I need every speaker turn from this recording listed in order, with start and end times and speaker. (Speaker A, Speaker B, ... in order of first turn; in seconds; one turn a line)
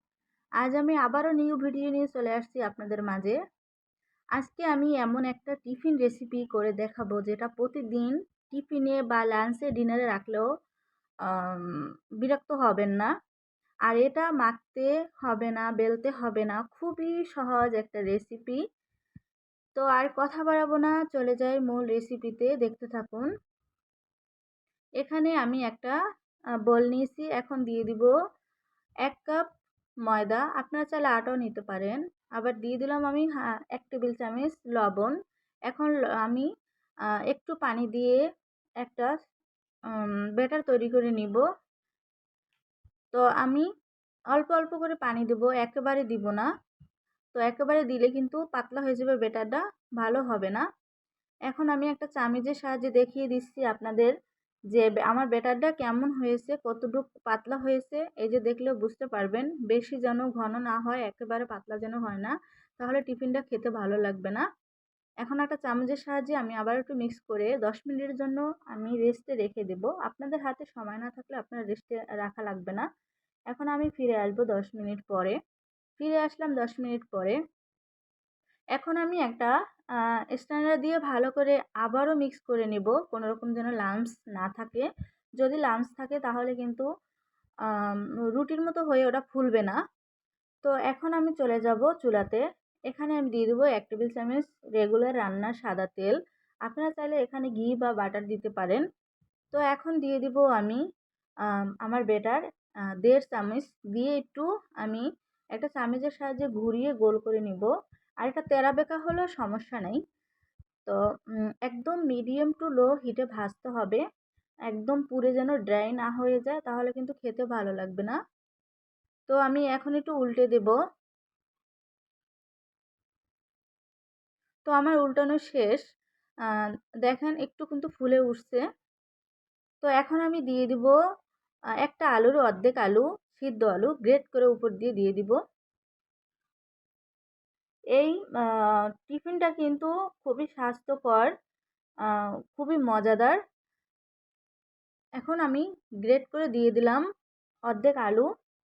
Speaker A: 0.6-3.4
Speaker A: 4.4-10.5
Speaker A: 11.3-13.1
Speaker A: 13.9-18.6
Speaker A: 19.7-23.3
Speaker A: 25.0-25.9
Speaker A: 26.7-28.1
Speaker A: 29.1-29.4
Speaker A: 30.1-35.1
Speaker A: 35.7-36.5
Speaker A: 37.3-38.2
Speaker A: 38.8-39.1
Speaker A: 39.9-41.4
Speaker A: 43.1-43.6
Speaker A: 44.3-46.5
Speaker A: 47.3-50.7
Speaker A: 51.5-54.1
Speaker A: 54.7-64.4
Speaker A: 65.2-72.8
Speaker A: 73.5-75.3
Speaker A: 76.0-77.4
Speaker A: 78.8-79.5
Speaker A: 80.3-84.9
Speaker A: 85.4-86.8
Speaker A: 87.8-89.8
Speaker A: 90.6-96.1
Speaker A: 96.7-98.8
Speaker A: 99.5-100.8
Speaker A: 101.8-102.4
Speaker A: 103.0-107.7
Speaker A: 108.2-110.0
Speaker A: 111.6-114.0
Speaker A: 114.7-118.2
Speaker A: 119.3-120.8
Speaker A: 124.7-125.8
Speaker A: 127.0-128.7
Speaker A: 129.8-130.9
Speaker A: 131.8-135.4
Speaker A: 137.9-141.3
Speaker A: 142.5-143.4
Speaker A: 145.2-147.0
Speaker A: 147.7-148.3